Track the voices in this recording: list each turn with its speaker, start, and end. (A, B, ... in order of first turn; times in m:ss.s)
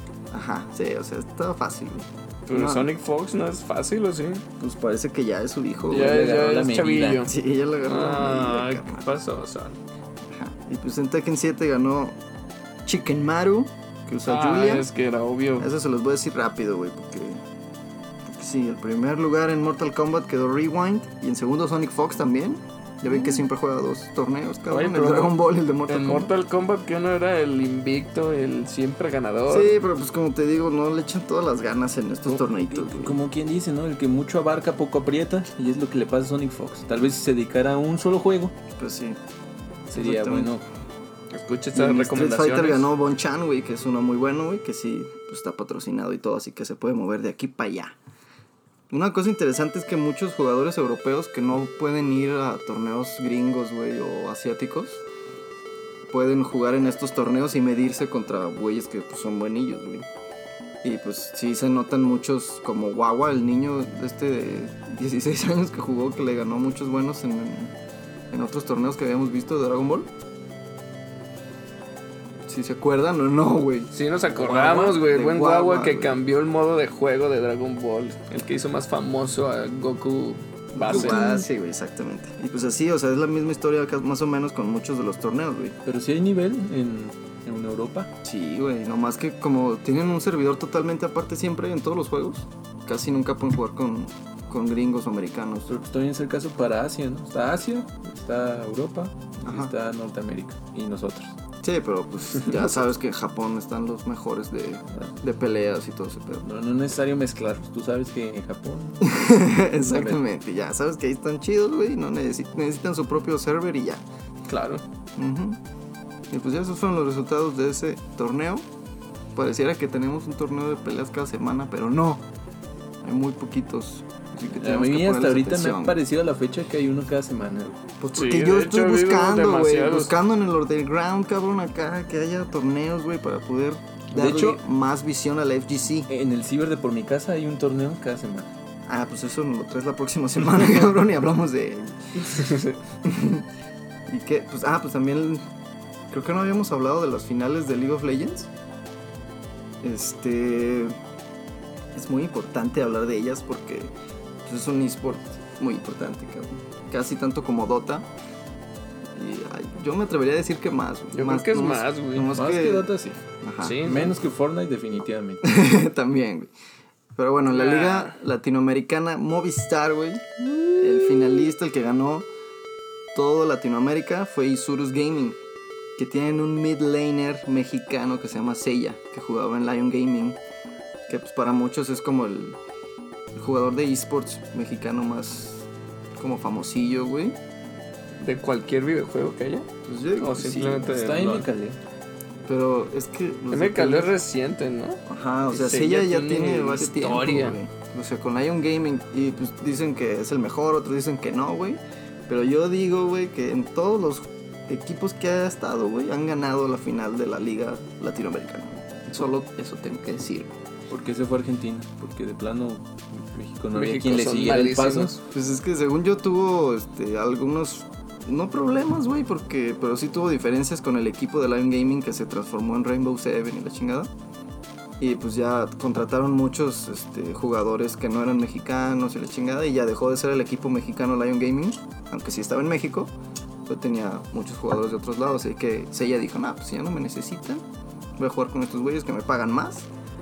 0:00.3-0:02.9 A
0:02.5-0:04.4 B
0:04.6-0:06.2 A
0:05.9-0:07.3 B
0:05.9-0:07.2 C
0:07.2-0:09.1 A
0:07.8-0:09.8 B
0:10.3-0:12.2 A
0:12.8-0:14.9 A
0:14.2-0:15.7 B
0:15.6-0:17.4 A
0:18.2-0:26.3 A
0:24.7-0:25.4 B
0:25.9-0:29.7 B
0:29.5-0:33.2 A
0:32.2-0:38.6 C
0:38.8-0:39.2 A
0:39.9-0:40.6 C
0:39.9-0:40.5 A
0:41.3-0:42.9 B
0:41.7-0:48.0 A
0:48.9-0:55.0 A
0:56.1-1:00.1 A
1:00.8-1:07.7 A
1:08.3-1:10.1 A
1:12.5-1:16.2 A
1:13.9-1:21.3 B
1:20.7-1:25.8 A
1:20.9-1:21.4 C
1:25.8-1:28.1 C
1:28.2-1:35.7 A
1:35.7-1:41.4 C
1:39.4-1:39.7 A
1:41.6-1:46.4 A
1:46.4-1:50.2 C
1:49.0-1:54.0 A
1:54.5-1:54.8 B
1:55.2-1:55.6 A
1:56.3-1:58.6 A
1:59.4-2:02.2 A
2:03.0-2:06.0 A
2:04.5-2:07.8 C
2:08.0-2:16.1 A
2:08.1-2:10.1 B
2:14.1-2:14.6 C
2:16.1-2:18.5 C
2:18.8-2:22.5 A
2:23.0-2:23.5 A
2:24.1-2:25.4 A
2:26.1-2:28.5 A
2:29.8-2:31.0 A
2:31.9-2:33.9 A
2:34.4-2:38.1 A
2:39.1-2:42.9 A
2:41.1-2:42.3 B
2:42.3-2:43.2 C
2:43.4-2:43.9 A
2:43.6-2:44.1 B
2:43.8-2:45.4 C
2:45.4-2:46.5 A
2:47.2-2:52.3 A
2:47.5-2:48.2 B
2:53.1-2:55.4 A
2:56.0-3:00.4 A
3:01.1-3:02.6 A
3:03.3-3:07.4 A
3:08.2-3:11.4 B
3:09.8-3:10.9 A
3:10.8-3:11.8 C
3:12.4-3:14.1 A
3:13.5-3:17.6 B
3:15.1-3:30.5 A
3:30.9-3:35.2 C
3:33.7-3:35.2 B
3:35.3-3:44.1 A
3:45.0-3:53.1 A
3:53.6-3:57.6 A
3:58.2-3:59.9 A